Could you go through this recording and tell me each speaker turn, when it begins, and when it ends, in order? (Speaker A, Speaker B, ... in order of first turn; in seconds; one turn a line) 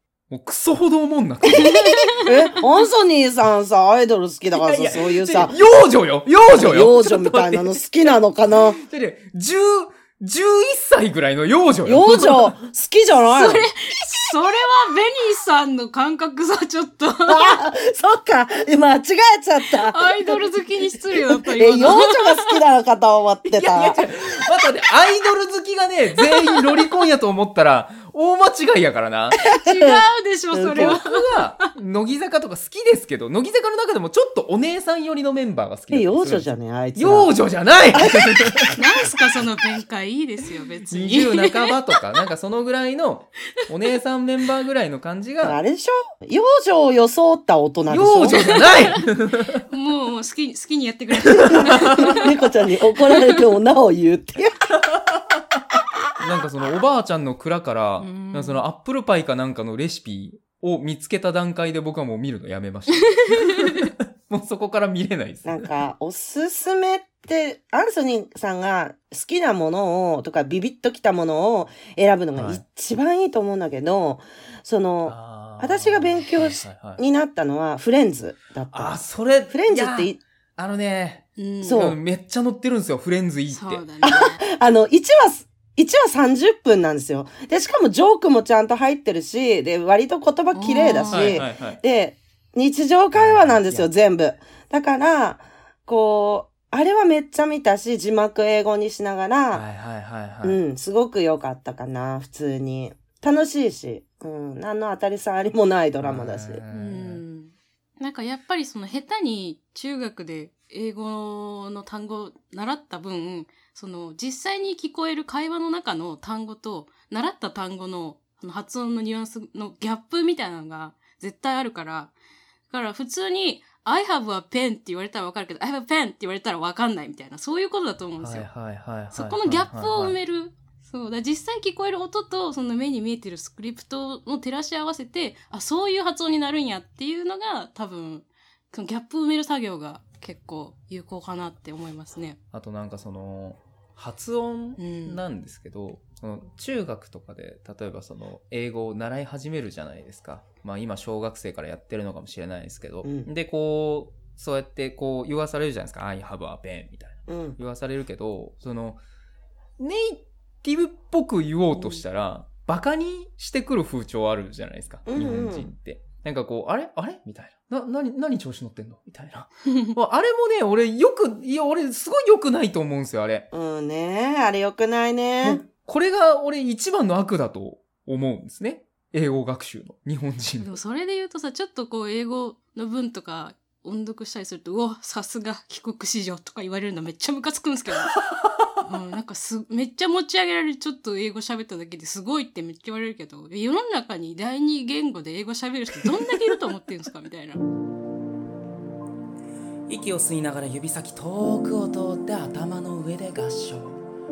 Speaker A: 0.3-2.2
Speaker B: 1.5-2.0
Speaker C: 2.2-5.6
Speaker A: 4.5-7.8
Speaker C: 6.5-8.8
Speaker A: 8.5-12.5
Speaker C: 11.8-13.7
Speaker B: 13.3-17.6
Speaker C: 17.3-20.5
Speaker B: 19.8-22.6
Speaker C: 21.1-24.0
Speaker A: 23.5-29.4
Speaker B: 29.4-31.6
Speaker C: 29.5-30.0
Speaker C: 30.5-31.0
Speaker A: 30.8-38.8
Speaker C: 35.9-37.3
Speaker C: 37.9-39.1
Speaker B: 38.7-41.8
Speaker A: 40.9-45.6
Speaker C: 45.4-48.5
Speaker A: 47.9-49.6
Speaker B: 48.4-48.9
Speaker B: 49.7-52.2
Speaker A: 51.2-52.1
Speaker C: 51.3-54.8
Speaker A: 54.9-55.2
Speaker A: 56.2-65.7
Speaker B: 58.0-58.6
Speaker C: 65.5-80.2
Speaker A: 72.3-72.6
Speaker A: 75.0-77.0
Speaker A: 78.7-83.9
Speaker B: 81.4-81.9
Speaker C: 81.6-82.0
Speaker B: 83.5-84.4
Speaker C: 84.0-99.6
Speaker B: 90.5-91.5
Speaker A: 91.1-91.8
Speaker A: 93.1-93.9
Speaker A: 99.5-100.6
Speaker C: 100.4-106.6
Speaker A: 106.0-107.2
Speaker B: 106.7-122.1
Speaker B: 122.7-128.5
Speaker A: 128.2-130.2
Speaker B: 129.1-142.4
Speaker A: 142.5-159.0
Speaker B: 144.8-145.2
Speaker C: 153.0-153.3
Speaker C: 157.3-157.6
Speaker A: 159.8-173.5
Speaker B: 161.7-162.0
Speaker C: 165.1-165.7
Speaker B: 169.7-169.9
Speaker C: 173.5-175.6
Speaker A: 175.4-180.7
Speaker B: 180.6-188.2
Speaker B: 188.8-197.6
Speaker A: 195.9-196.6
Speaker A: 199.9-204.0